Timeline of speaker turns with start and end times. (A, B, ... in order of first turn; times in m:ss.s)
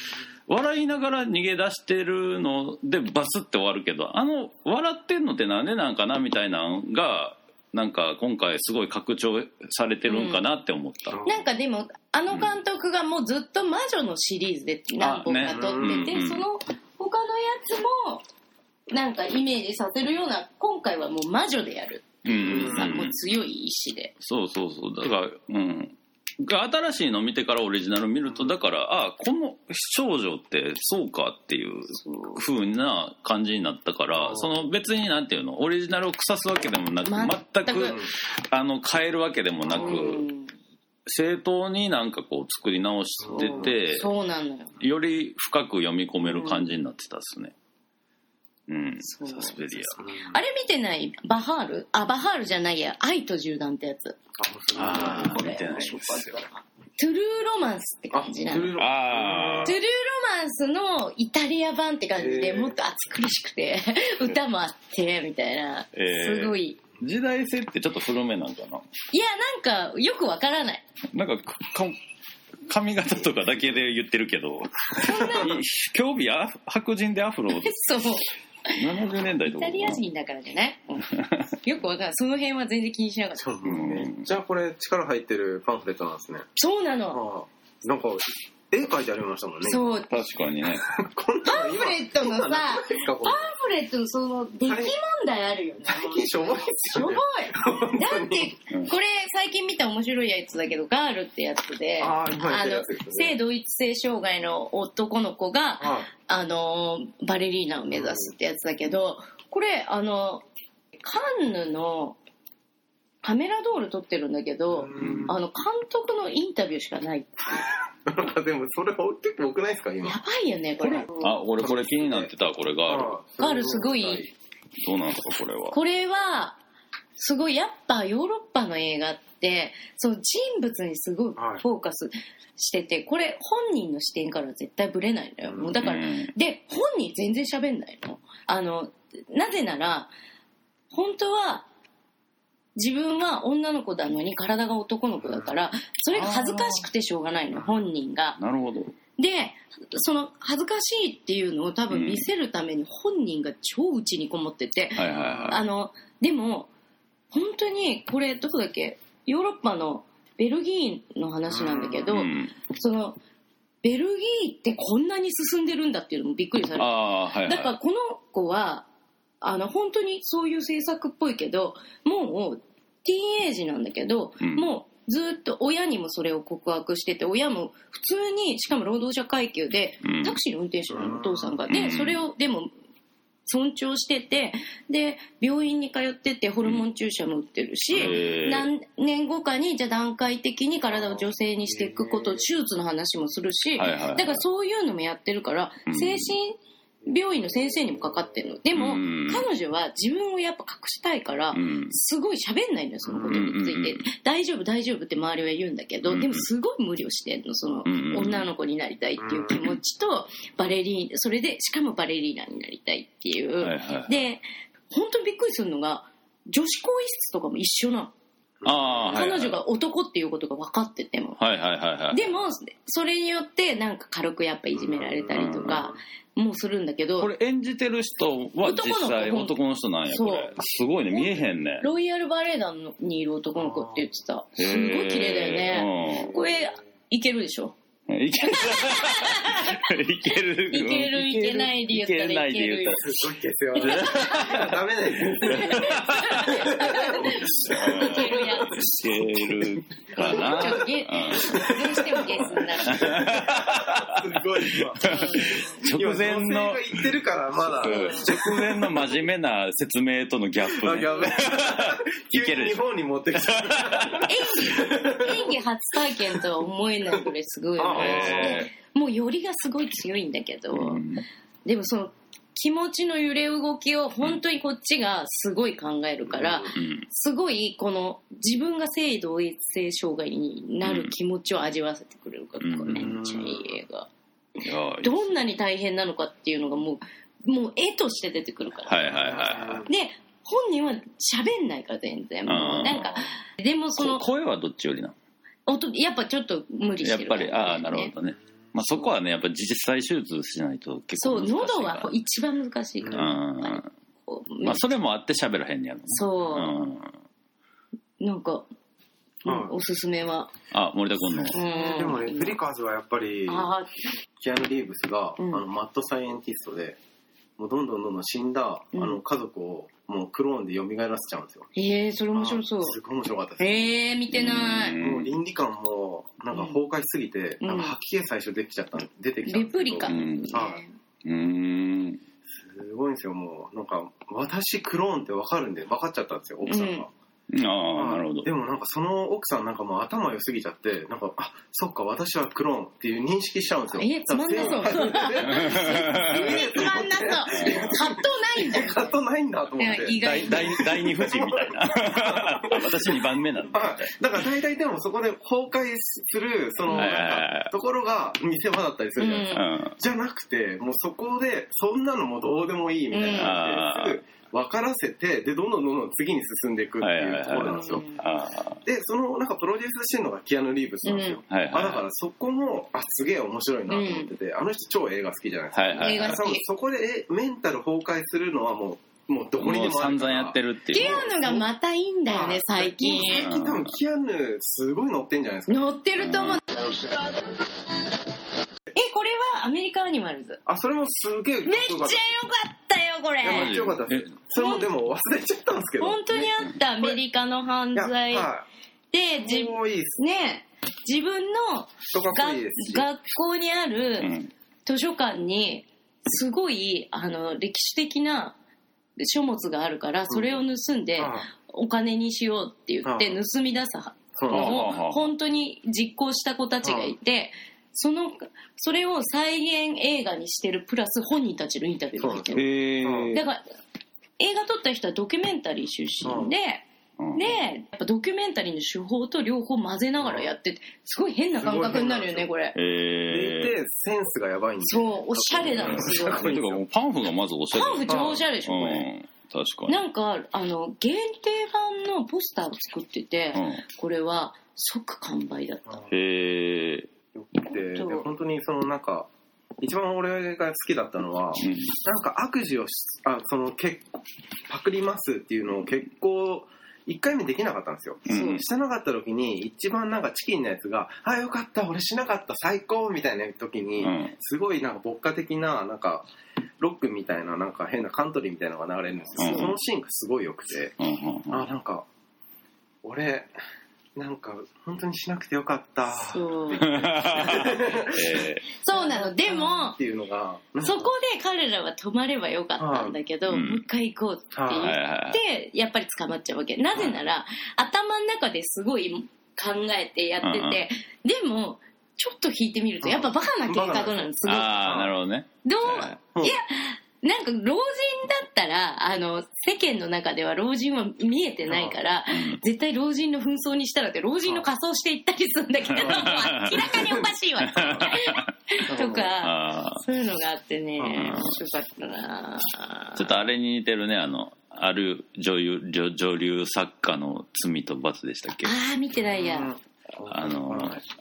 0:00.5-0:11.2 A
0:10.1-0:10.4 B
0:11.1-0:11.5 C
0:11.2-0:18.2 B
0:15.0-0:16.4 A
0:15.5-0:16.1 C
0:18.9-0:24.1 B
0:22.2-0:23.1 A
0:22.4-0:23.1 C
0:24.2-0:40.2 A
0:31.9-0:32.4 B
0:34.2-0:34.5 C
0:37.1-0:38.0 B
0:37.7-0:38.1 C
0:39.7-0:40.1 C
0:39.8-0:40.5 B
0:41.1-0:44.1 A
0:43.2-0:43.7 C
0:43.3-0:44.7 B
0:44.8-0:47.5 A
0:46.2-0:46.7 B
0:48.7-0:50.0 A
0:49.0-0:54.2 B
0:50.0-0:50.4 C
0:54.4-0:55.9 C
0:54.7-0:56.4 A
0:54.8-0:58.8 B
0:58.1-0:59.8 C
0:58.8-0:59.8 A
0:59.6-1:06.8 B
1:02.2-1:02.8 C
1:06.0-1:08.8 A
1:09.1-1:10.8 B
1:11.1-1:12.0 A
1:12.7-1:17.8 A
1:15.0-1:15.6 B
1:15.1-1:15.5 C
1:17.5-1:23.4 B
1:18.8-1:20.0 A
1:21.1-1:21.5 A
1:23.4-1:26.5 C
1:23.6-1:24.3 A
1:26.6-1:27.2 B
1:27.1-1:29.9 C
1:29.6-1:30.2 B
1:30.1-1:30.9 A
1:30.8-1:33.5 C
1:31.4-1:50.4 B
1:34.7-1:35.0 C
1:35.9-1:38.6 C
1:42.0-1:43.4 C
1:45.8-1:46.1 C
1:47.9-1:48.3 C
1:51.0-1:52.2 B
1:53.2-1:57.5 B
1:54.7-1:55.4 C
1:55.0-1:55.3 A
1:58.0-2:00.2 C
2:00.0-2:01.4 B
2:00.8-2:03.2 A
2:01.6-2:02.3 C
2:02.9-2:04.3 C
2:03.4-2:04.3 B
2:04.8-2:05.8 A
2:05.7-2:06.6 B
2:07.2-2:20.1 B
2:11.4-2:11.6 C
2:15.8-2:16.3 A
2:20.9-2:21.7 B
2:22.8-2:28.4 B
2:25.2-2:25.5 C
2:26.1-2:26.9 A
2:28.4-2:28.9 A
2:29.2-2:36.7 B
2:31.9-2:32.3 A
2:35.0-2:35.6 A
2:35.1-2:35.6 C
2:37.3-2:43.2 B
2:41.5-2:42.1 C
2:42.1-2:42.5 A
2:43.8-2:48.9 B
2:46.8-2:47.7 A
2:49.4-3:02.7 B
2:54.4-2:54.7 A
3:00.0-3:00.4 A
3:00.9-3:01.6 C
3:01.7-3:02.2 A
3:03.5-3:38.1 B
3:07.9-3:08.7 A
3:11.8-3:12.2 C
3:13.8-3:14.4 A
3:15.9-3:16.4 A
3:18.7-3:19.5 A
3:21.5-3:22.0 A
3:23.1-3:23.4 C
3:23.2-3:24.0 A
3:26.1-3:26.5 A
3:27.9-3:28.5 A
3:29.2-3:29.6 C
3:33.6-3:34.2 A
3:38.6-3:39.2 C
3:38.6-3:39.6 A
3:39.0-3:41.4 B
3:41.4-3:42.3 A
3:42.1-3:47.3 B
3:44.8-3:46.0 C
3:45.3-3:45.9 A
3:47.2-3:51.9 A
3:48.6-3:49.6 B
3:50.1-3:50.5 B
3:51.1-3:57.8 B
3:53.6-3:54.0 C
3:54.6-3:56.3 A
3:58.1-4:03.2 A
3:58.5-4:03.2 B
4:03.0-4:19.2 C
4:03.8-4:04.6 B
4:03.8-4:04.8 A
4:05.4-4:08.9 B
4:05.5-4:06.6 A
4:07.5-4:11.7 A
4:10.2-4:13.4 B
4:12.8-4:17.1 A
4:15.0-4:15.7 B
4:17.6-4:24.3 A
4:17.8-4:18.2 B
4:20.6-4:25.6 C
4:24.3-4:31.0 B
4:27.8-4:28.7 C
4:27.9-4:28.7 A
4:30.7-4:31.2 A
4:31.7-4:44.1 B
4:36.3-4:36.7 C
4:36.7-4:37.1 A
4:40.8-4:41.1 A
4:42.6-4:43.1 A
4:42.9-4:43.7 C
4:44.6-4:45.3 A
4:45.0-4:54.2 B
4:48.9-4:49.9 A
4:49.1-4:49.9 C
4:52.5-4:53.3 A
4:54.0-4:55.2 A
4:55.7-4:58.1 B
4:57.0-5:02.1 A
5:01.2-5:04.8 B
5:03.0-5:03.3 C
5:03.1-5:03.9 A
5:04.6-5:07.1 A
5:06.1-5:06.8 B
5:08.2-5:08.7 B
5:09.4-5:10.5 B
5:09.4-5:09.8 C
5:10.7-5:11.6 A
5:11.3-5:13.7 C
5:11.5-5:12.6 B
5:13.5-5:14.1 B
5:14.4-5:17.0 C
5:15.4-5:15.6 B
5:17.6-5:21.7 C
5:18.9-5:19.2 B
5:21.8-5:23.0 B
5:22.3-5:23.9 C
5:23.6-5:25.0 B
5:24.3-5:25.3 A
5:25.0-5:30.8 C
5:27.6-5:28.0 B
5:29.5-5:31.0 B
5:30.1-5:30.7 A
5:31.2-5:32.2 A
5:32.5-5:37.1 C
5:36.7-5:37.1 B
5:37.5-5:38.5 A
5:38.0-6:08.1 C
5:44.0-5:49.2 B
5:45.4-5:46.6 A
5:47.5-5:48.0 A
5:49.8-5:51.0 B
5:50.2-5:54.1 A
5:56.9-5:57.2 B
5:56.9-5:57.7 A
5:59.2-5:59.7 B
5:59.5-6:00.0 A
6:03.1-6:03.6 B
6:03.3-6:04.2 A
6:07.0-6:08.8 A
6:07.7-6:08.2 B
6:08.8-6:21.6 C
6:11.0-6:11.4 B
6:11.5-6:12.0 A
6:13.9-6:14.3 B
6:15.7-6:16.4 A
6:16.0-6:16.6 B
6:19.6-6:21.6 A
6:20.9-6:23.5 B
6:22.3-6:25.8 C
6:23.3-6:23.9 A
6:25.7-6:26.9 B
6:26.2-6:26.6 A
6:28.9-6:30.6 B
6:30.7-6:32.2 C
6:31.6-6:33.8 B
6:33.4-6:37.2 C
6:33.4-6:34.4 A
6:34.5-6:34.9 B
6:36.0-6:38.5 B
6:38.0-6:38.7 C
6:39.1-6:44.3 B
6:39.4-6:40.2 C
6:42.1-6:43.1 C
6:44.2-6:44.5 A
6:44.9-6:48.6 B
6:49.2-7:02.7 B
6:50.3-6:50.6 C
6:51.2-6:51.5 C
6:53.0-6:53.4 C
6:54.4-6:54.9 C
6:54.5-6:55.3 A
6:56.8-6:57.1 C
7:02.2-7:03.4 C
7:02.5-7:03.4 A
7:03.3-7:03.6 B
7:04.4-7:12.8 B
7:06.2-7:06.5 C
7:07.2-7:07.6 A
7:10.2-7:10.5 C
7:11.6-7:12.5 C
7:12.8-7:13.8 A
7:13.3-7:16.8 C
7:14.8-7:16.6 B
7:15.8-7:20.0 A
7:17.7-7:19.1 B
7:18.1-7:18.4 C
7:19.9-7:26.1 B
7:23.5-7:23.8 A
7:26.1-7:27.1 A
7:27.4-7:29.3 C
7:27.7-7:28.3 B
7:29.8-7:46.3 C
7:31.6-7:32.0 A
7:38.3-7:38.6 B
7:38.3-7:38.6 A
7:44.0-7:44.4 A
7:46.8-7:51.0 C
7:49.4-7:49.8 A
7:51.0-7:51.7 A
7:51.5-7:52.1 C
7:53.0-7:53.5 C
7:54.2-8:01.1 C
7:56.1-7:57.0 B
7:56.8-7:58.7 A
7:58.8-8:00.0 B
8:00.8-8:14.9 B
8:02.8-8:03.2 C
8:03.5-8:03.8 A
8:04.5-8:04.9 C
8:04.7-8:05.4 A
8:10.4-8:10.8 A
8:13.0-8:15.1 C
8:14.4-8:16.1 A
8:15.6-8:33.5 B
8:21.7-8:22.0 C
8:22.3-8:22.6 A
8:26.0-8:26.9 A
8:26.0-8:26.2 C
8:26.8-8:27.3 C
8:27.6-8:28.5 A
8:27.8-8:28.1 C
8:28.9-8:29.4 C
8:29.4-8:30.0 A
8:31.0-8:31.5 C
8:31.2-8:31.5 A
8:33.2-8:38.7 A
8:38.6-8:39.7 B
8:39.3-8:41.0 C
8:40.3-8:41.0 A